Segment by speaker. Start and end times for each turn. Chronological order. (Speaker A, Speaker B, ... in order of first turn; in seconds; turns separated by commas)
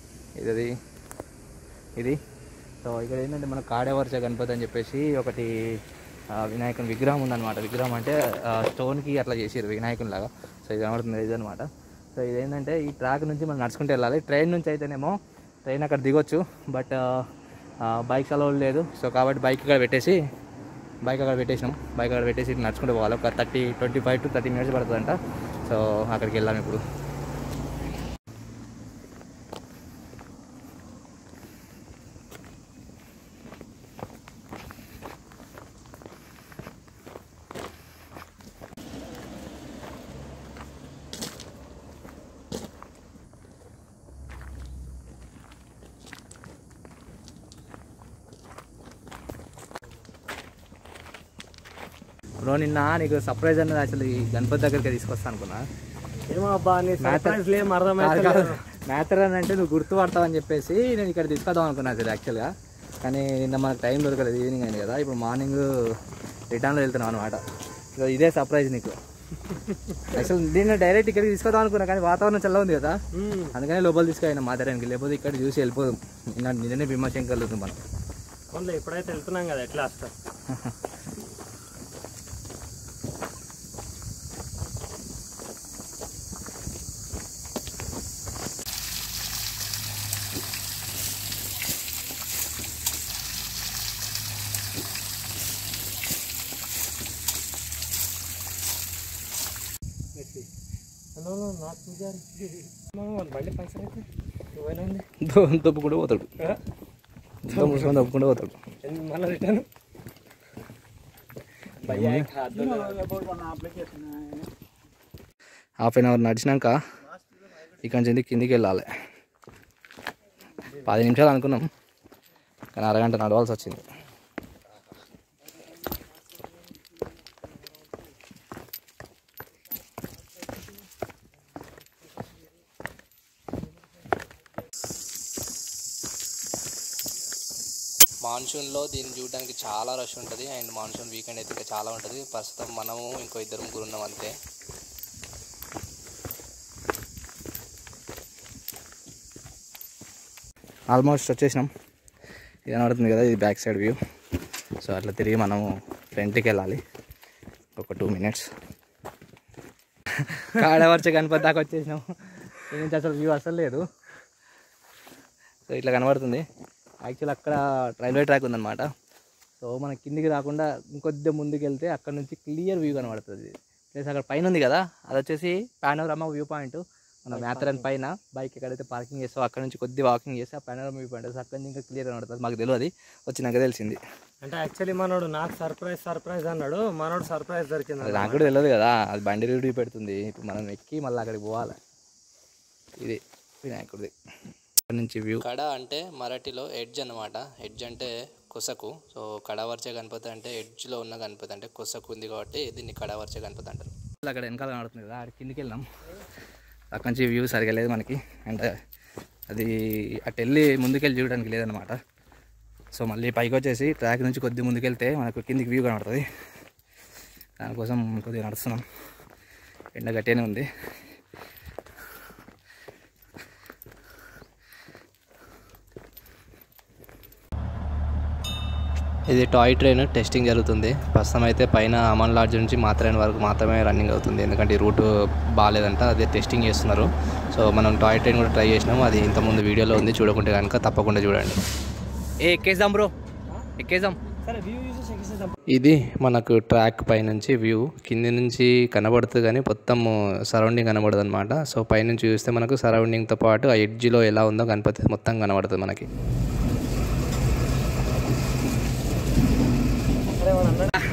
Speaker A: 0.4-0.7, Speaker A: 2.8-5.8, Speaker A: 6.3-17.2, Speaker A: 17.9-20.2, Speaker A: 21.0-26.8, Speaker A: 52.4-55.6, Speaker B: 56.3-58.6, Speaker A: 57.0-57.4, Speaker A: 58.0-62.5, Speaker A: 63.0-66.0, Speaker A: 66.5-67.4, Speaker A: 68.0-69.0, Speaker B: 69.5-70.1, Speaker A: 70.1-73.0, Speaker B: 73.1-73.6, Speaker A: 73.5-77.8, Speaker B: 78.5-80.1, Speaker B: 100.2-100.5, Speaker B: 101.2-102.3, Speaker B: 102.8-105.1, Speaker A: 105.2-106.3, Speaker A: 107.5-108.6, Speaker B: 107.5-108.0, Speaker B: 108.8-109.7, Speaker B: 111.8-113.3, Speaker A: 111.9-112.3, Speaker A: 115.8-116.8, Speaker A: 117.5-118.9, Speaker A: 120.7-121.7, Speaker A: 122.8-123.9, Speaker A: 138.2-144.3, Speaker A: 150.9-151.7, Speaker A: 152.7-154.0, Speaker A: 154.8-156.8, Speaker A: 157.8-158.5, Speaker A: 160.2-163.8, Speaker A: 165.7-166.4, Speaker A: 167.1-168.9, Speaker A: 169.6-184.0, Speaker B: 177.3-177.8, Speaker B: 184.4-188.6, Speaker A: 188.0-191.8, Speaker A: 193.0-194.1, Speaker A: 194.9-205.9, Speaker A: 206.9-208.7, Speaker A: 209.5-212.0, Speaker A: 212.9-216.2, Speaker A: 217.6-218.8, Speaker A: 219.9-220.7, Speaker A: 229.3-235.1, Speaker A: 235.6-241.6, Speaker A: 242.4-243.1, Speaker A: 243.8-244.2, Speaker B: 244.4-245.6, Speaker A: 245.7-256.1, Speaker B: 260.4-260.9